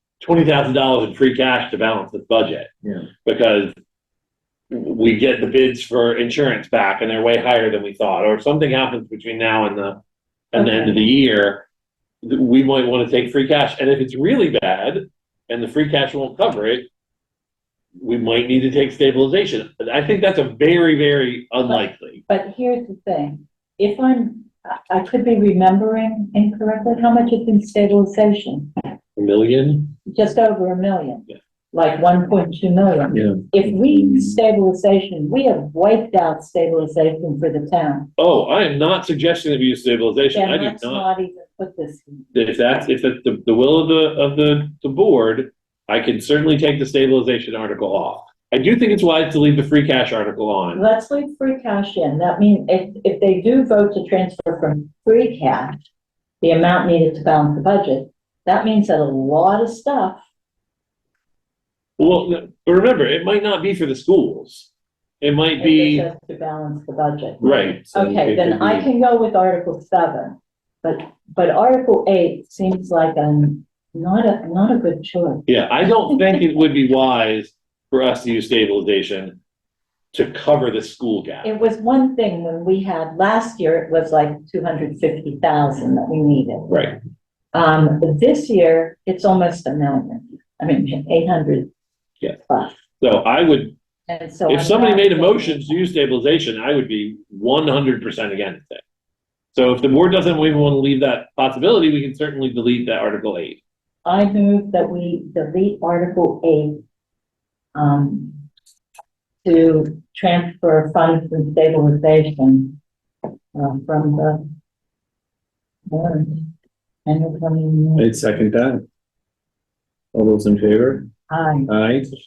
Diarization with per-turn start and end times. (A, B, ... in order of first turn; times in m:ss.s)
0:00.2-0:02.7 A
0:03.2-0:03.8 A
0:04.7-0:10.0 A
0:10.5-0:11.6 A
0:10.6-0:11.0 B
0:12.2-0:16.9 A
0:18.0-0:22.2 A
0:21.7-0:28.7 B
0:29.2-0:29.9 A
0:30.1-0:38.1 B
0:33.2-0:34.4 C
0:38.2-0:41.1 A
0:40.3-0:42.3 B
0:42.3-0:50.8 A
0:50.8-0:55.8 B
0:56.4-1:00.2 B
1:02.0-1:06.1 A
1:05.6-1:16.4 B
1:07.4-1:07.9 A
1:07.4-1:08.8 C
1:15.5-1:19.4 A
1:20.1-1:21.5 A
1:21.4-1:26.7 B
1:26.7-1:27.0 A
1:27.5-1:31.7 B
1:32.5-1:32.8 B
1:33.0-1:33.7 A
1:34.1-1:35.8 B
1:34.5-1:38.8 A
1:39.5-1:43.6 A
1:44.0-1:46.8 B
1:47.8-1:48.4 B
1:49.4-1:52.8 B
1:53.6-1:54.4 B
1:55.9-1:56.5 B
1:57.1-1:58.1 B
1:58.0-1:58.8 C
2:00.1-2:01.1 C
2:01.3-2:01.7 B
2:01.7-2:02.2 C